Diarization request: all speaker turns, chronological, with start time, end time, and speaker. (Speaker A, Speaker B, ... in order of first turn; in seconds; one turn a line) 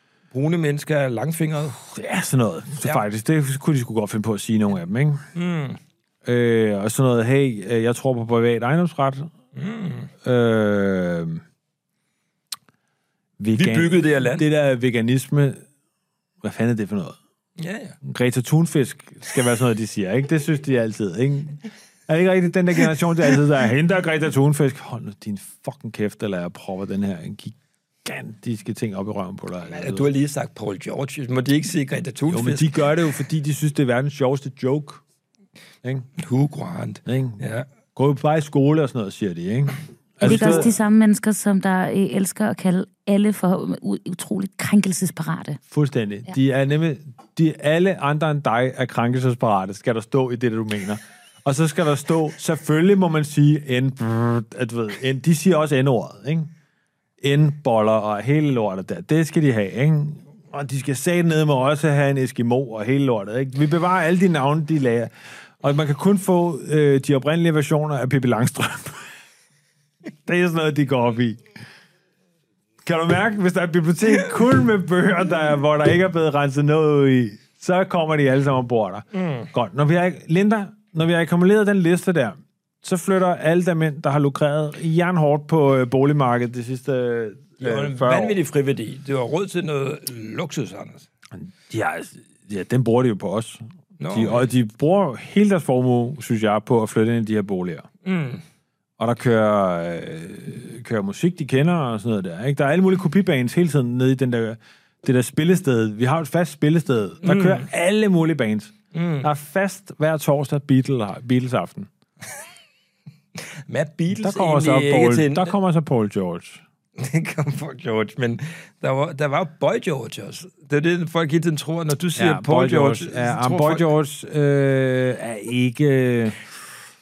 Speaker A: 0.3-1.8
Speaker B: 1.8-5.2
Speaker A: 5.3-5.8
Speaker B: 6.2-9.3
Speaker A: 9.5-10.1
Speaker B: 10.2-11.4
Speaker B: 13.4-15.6
Speaker A: 13.5-14.4
Speaker B: 16.4-17.2
Speaker A: 17.6-17.9
Speaker B: 18.0-30.1
Speaker A: 29.6-32.7
Speaker B: 32.3-35.0
Speaker A: 36.2-37.7
Speaker B: 37.0-37.4
Speaker B: 37.9-40.7
Speaker C: 40.2-45.6
Speaker A: 40.2-40.6
Speaker B: 45.7-56.5
Speaker B: 57.2-69.1
Speaker B: 70.2-71.5
Speaker B: 72.8-88.4
Speaker A: 79.1-79.5
Speaker A: 87.6-91.1
Speaker B: 91.3-97.9
Speaker A: 94.0-94.5
Speaker A: 98.0-98.4
Speaker B: 99.0-111.9
Speaker A: 107.2-107.7
Speaker A: 108.9-109.3
Speaker A: 113.7-115.5
Speaker B: 114.1-116.6
Speaker A: 117.0-123.9
Speaker B: 122.2-126.5